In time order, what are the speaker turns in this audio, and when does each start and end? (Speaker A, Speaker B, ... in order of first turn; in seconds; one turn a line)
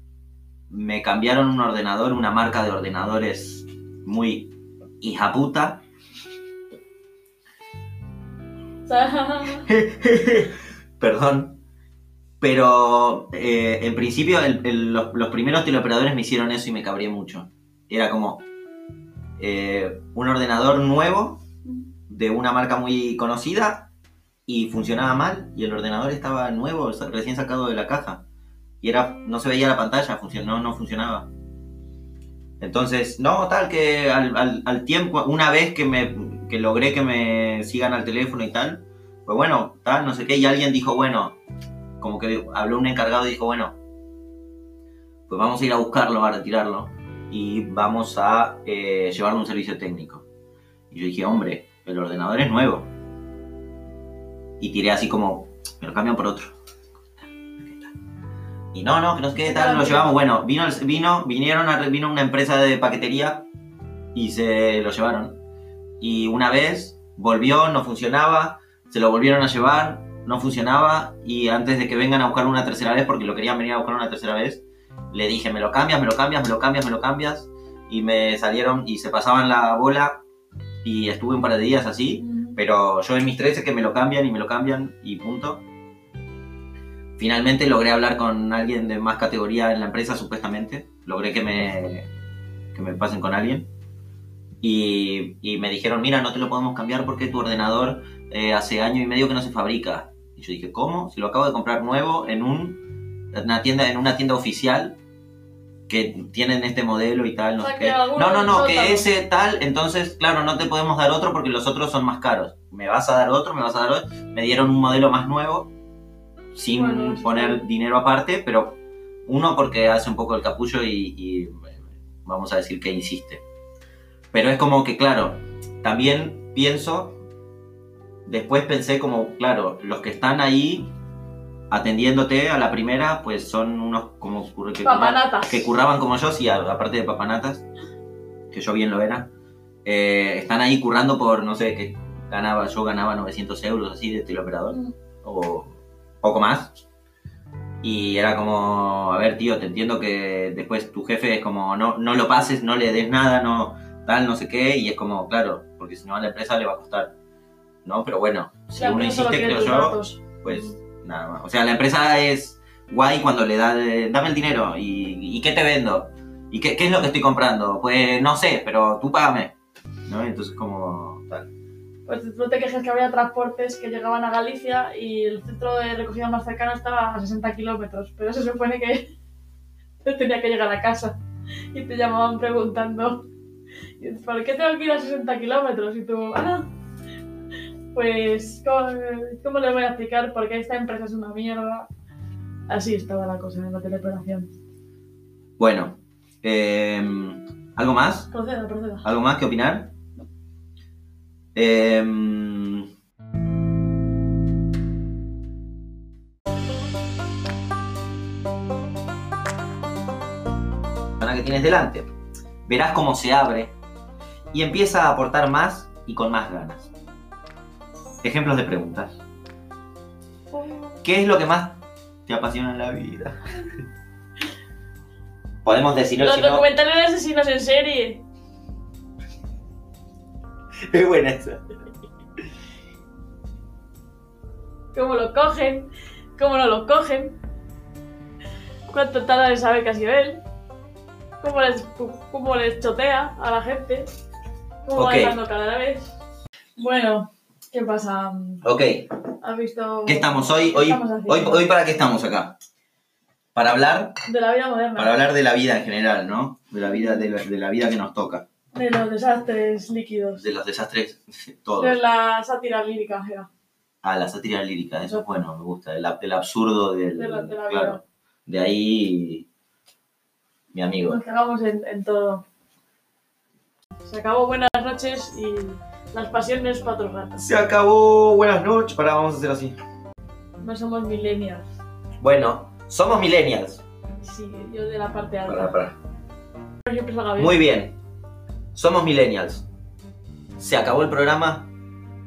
Speaker A: 0.7-5.8
Speaker B: 8.8-9.7
Speaker A: 9.7-11.6
Speaker A: 12.4-18.4
Speaker A: 19.4-21.4
Speaker A: 22.1-23.9
Speaker A: 24.5-28.2
Speaker A: 28.8-31.3
Speaker A: 32.6-41.4
Speaker A: 42.0-43.7
Speaker A: 45.3-50.2
Speaker A: 50.9-52.9
Speaker A: 54.6-56.5
Speaker A: 57.6-57.9
Speaker A: 58.7-63.5
Speaker B: 59.4-60.1
Speaker A: 64.1-65.4
Speaker A: 66.0-80.2
Speaker A: 80.8-85.6
Speaker B: 82.2-82.6
Speaker A: 87.2-92.1
Speaker A: 92.7-93.7
Speaker A: 94.6-105.0
Speaker A: 105.9-115.7
Speaker B: 107.6-109.1
Speaker A: 116.5-123.4
Speaker B: 116.7-117.6
Speaker A: 124.3-127.2
Speaker A: 128.2-130.9
Speaker A: 131.7-137.6
Speaker B: 134.8-135.7
Speaker A: 138.5-139.3
Speaker A: 139.8-146.7
Speaker A: 147.8-157.1
Speaker A: 157.8-169.5
Speaker B: 158.8-160.8
Speaker A: 170.1-171.5
Speaker B: 172.1-179.1
Speaker B: 180.0-181.2
Speaker B: 181.7-183.3
Speaker B: 184.0-186.7
Speaker B: 187.9-191.9
Speaker B: 192.7-194.5
Speaker A: 195.6-198.3
Speaker B: 198.3-199.1
Speaker A: 199.0-199.9
Speaker A: 201.5-202.9
Speaker A: 211.2-212.1
Speaker A: 212.7-213.7
Speaker A: 214.5-216.9
Speaker A: 218.2-219.2
Speaker B: 220.5-220.9
Speaker A: 221.0-223.7
Speaker A: 225.6-226.7
Speaker B: 226.2-228.2
Speaker A: 230.9-231.6
Speaker B: 234.9-237.4
Speaker B: 238.9-240.4
Speaker B: 241.4-244.1
Speaker B: 244.8-246.2
Speaker A: 244.9-245.4
Speaker B: 246.8-248.6
Speaker A: 248.6-249.1
Speaker B: 249.4-251.6
Speaker A: 250.1-252.6
Speaker A: 253.5-254.2
Speaker B: 254.2-255.1
Speaker A: 254.9-258.4
Speaker B: 256.9-257.3
Speaker B: 258.7-260.4
Speaker A: 260.4-262.0
Speaker B: 261.8-263.5
Speaker A: 264.0-269.4
Speaker B: 267.1-268.0
Speaker A: 270.7-271.2
Speaker B: 271.1-272.4
Speaker B: 274.0-277.4
Speaker A: 277.4-279.8
Speaker B: 280.6-281.7
Speaker A: 282.2-283.8
Speaker B: 284.2-285.8
Speaker A: 285.4-285.9
Speaker B: 286.9-287.6
Speaker A: 287.4-287.9
Speaker A: 288.7-289.6
Speaker A: 290.6-291.7